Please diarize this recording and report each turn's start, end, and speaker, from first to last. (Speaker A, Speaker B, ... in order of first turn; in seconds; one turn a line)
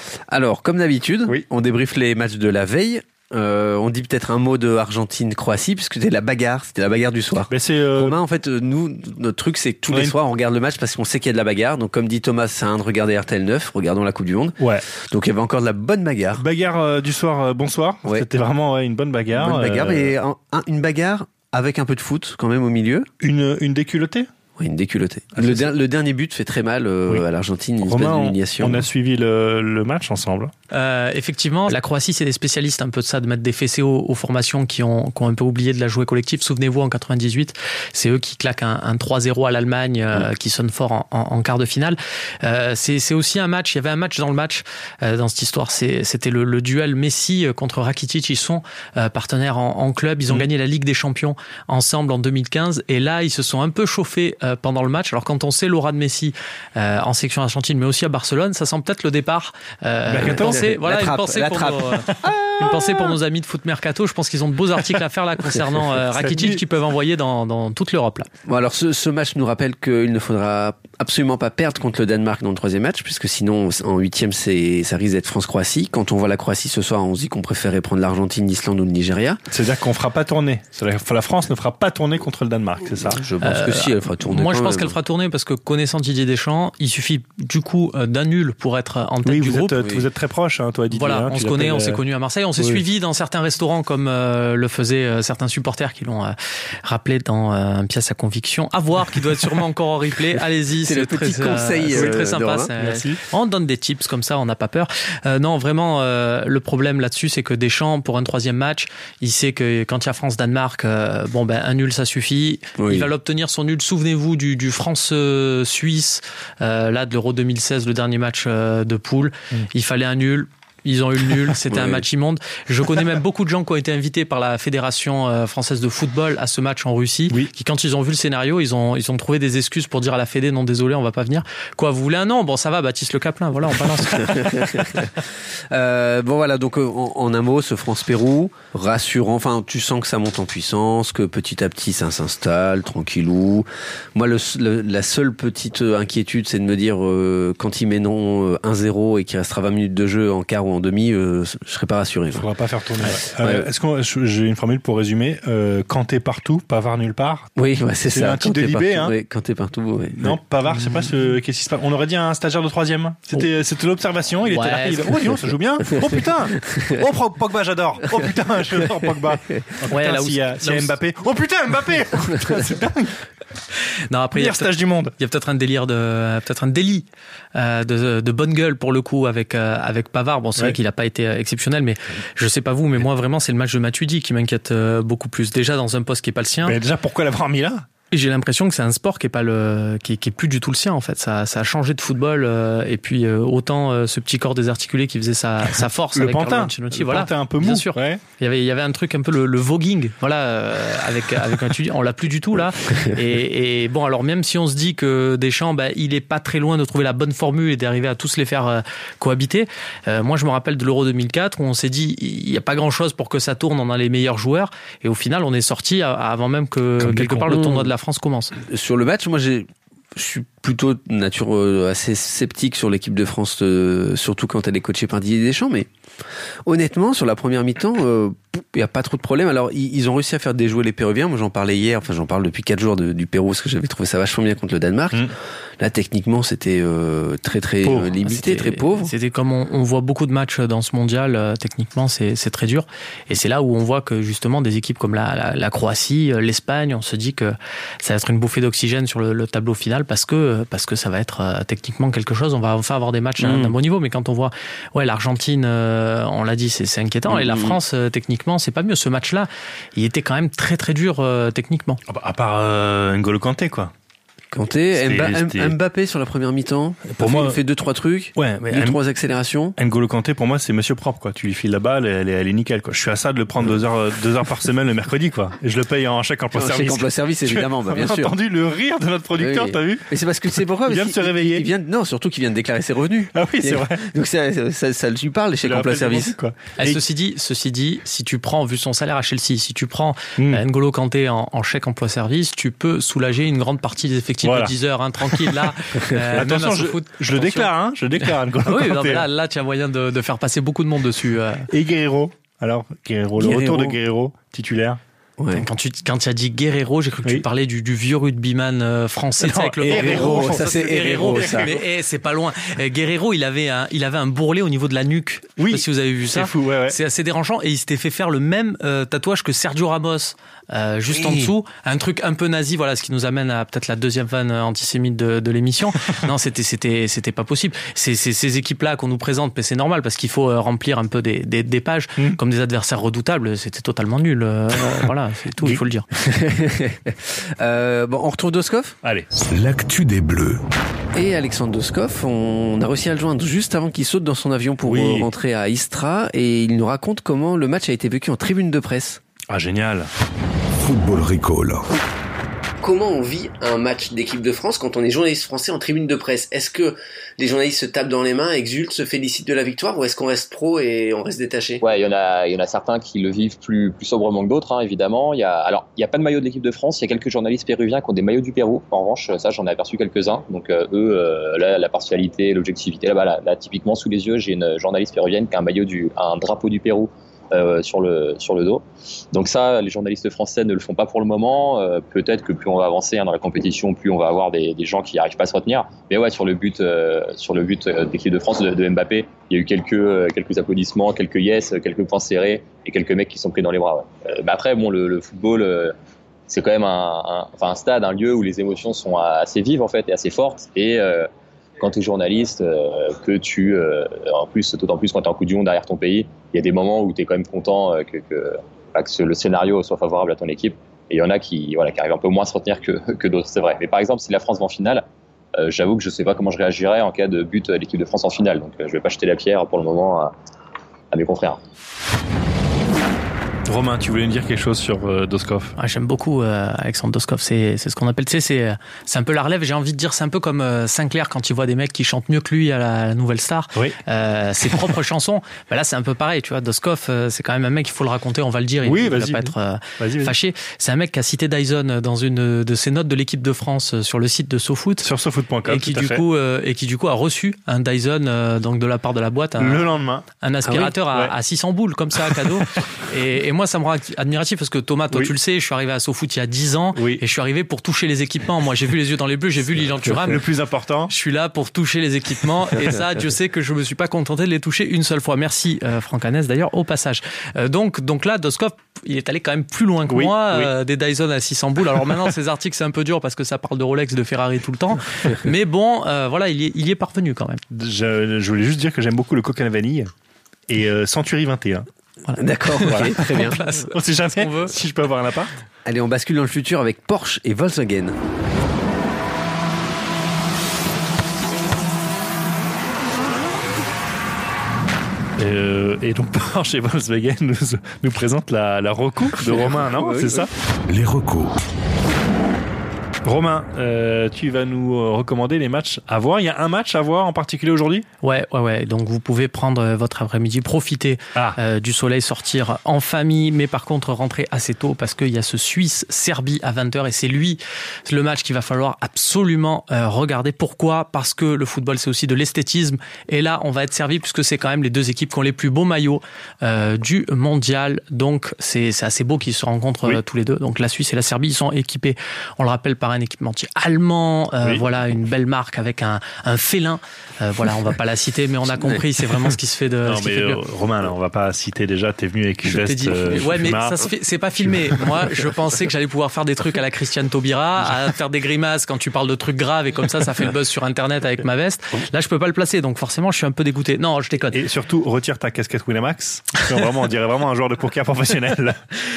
Speaker A: 0.3-16.4
Speaker B: 7.5-8.2
Speaker B: 14.6-14.8
Speaker B: 16.4-20.1
Speaker A: 19.3-23.1
Speaker B: 23.2-24.3
Speaker A: 24.6-28.9
Speaker B: 25.4-25.7
Speaker B: 27.8-30.5
Speaker C: 30.7-68.3
Speaker B: 60.1-60.7
Speaker A: 60.2-62.9
Speaker B: 66.0-66.6
Speaker A: 68.5-79.4
Speaker B: 79.5-83.2
Speaker A: 83.1-85.0
Speaker C: 83.4-89.8
Speaker B: 89.2-92.0
Speaker A: 89.8-90.1
Speaker C: 90.9-134.5
Speaker A: 100.8-102.7
Speaker B: 101.9-103.2
Speaker A: 112.8-113.1
Speaker A: 121.7-122.0
Speaker A: 134.2-152.5
Speaker B: 152.3-157.5
Speaker A: 153.0-153.7
Speaker A: 157.6-160.4
Speaker B: 158.1-159.1
Speaker B: 160.2-173.2
Speaker C: 164.4-165.3
Speaker C: 169.9-170.9
Speaker C: 174.1-186.8
Speaker B: 174.4-175.1
Speaker B: 186.6-187.9
Speaker C: 188.1-218.5
Speaker B: 196.1-198.2
Speaker B: 217.0-217.8
Speaker A: 218.7-225.9
Speaker A: 226.7-239.1
Speaker B: 237.8-238.1
Speaker C: 238.2-262.0
Speaker A: 257.3-257.8
Speaker B: 262.1-263.9
Speaker A: 264.5-269.8
Speaker B: 264.9-265.7
Speaker B: 267.1-267.6
Speaker B: 268.4-269.0
Speaker B: 269.8-280.1
Speaker A: 276.5-278.4
Speaker A: 279.4-286.4
Speaker B: 280.8-281.6
Speaker B: 283.4-284.1
Speaker B: 285.6-287.0
Speaker C: 286.8-297.7
Speaker B: 294.4-294.7
Speaker B: 295.3-295.6
Speaker B: 296.3-299.3
Speaker C: 298.2-301.7
Speaker B: 301.7-305.0
Speaker A: 303.4-304.0
Speaker A: 305.4-305.7
Speaker C: 305.5-336.1
Speaker B: 309.4-311.8
Speaker A: 309.9-311.7
Speaker B: 315.6-317.0
Speaker B: 321.1-321.5
Speaker A: 336.2-339.0
Speaker B: 339.0-339.3
Speaker D: 339.5-340.6
Speaker A: 341.1-349.2
Speaker B: 344.9-345.3
Speaker B: 349.5-350.1
Speaker D: 350.8-351.9
Speaker A: 352.8-361.8
Speaker E: 361.8-395.9
Speaker E: 396.5-401.3
Speaker E: 401.8-415.1
Speaker E: 415.6-420.3
Speaker E: 421.1-421.6
Speaker B: 423.7-425.7
Speaker C: 425.8-445.1
Speaker B: 438.8-440.3
Speaker B: 445.0-446.2
Speaker C: 445.7-449.9
Speaker B: 449.6-451.3
Speaker C: 450.4-460.4
Speaker B: 452.2-452.6
Speaker B: 456.9-457.2
Speaker B: 459.7-461.1
Speaker C: 461.1-477.6
Speaker B: 470.1-470.7
Speaker B: 477.7-480.1
Speaker B: 480.7-481.9
Speaker C: 482.3-484.7
Speaker A: 482.4-483.6
Speaker B: 482.9-485.5
Speaker A: 485.9-488.2
Speaker B: 495.4-500.5
Speaker A: 499.4-500.5
Speaker D: 500.9-501.6
Speaker B: 503.2-508.1
Speaker C: 508.2-540.6
Speaker A: 538.7-539.0
Speaker B: 540.0-544.1
Speaker C: 542.6-554.6
Speaker B: 544.6-545.2
Speaker B: 554.5-558.8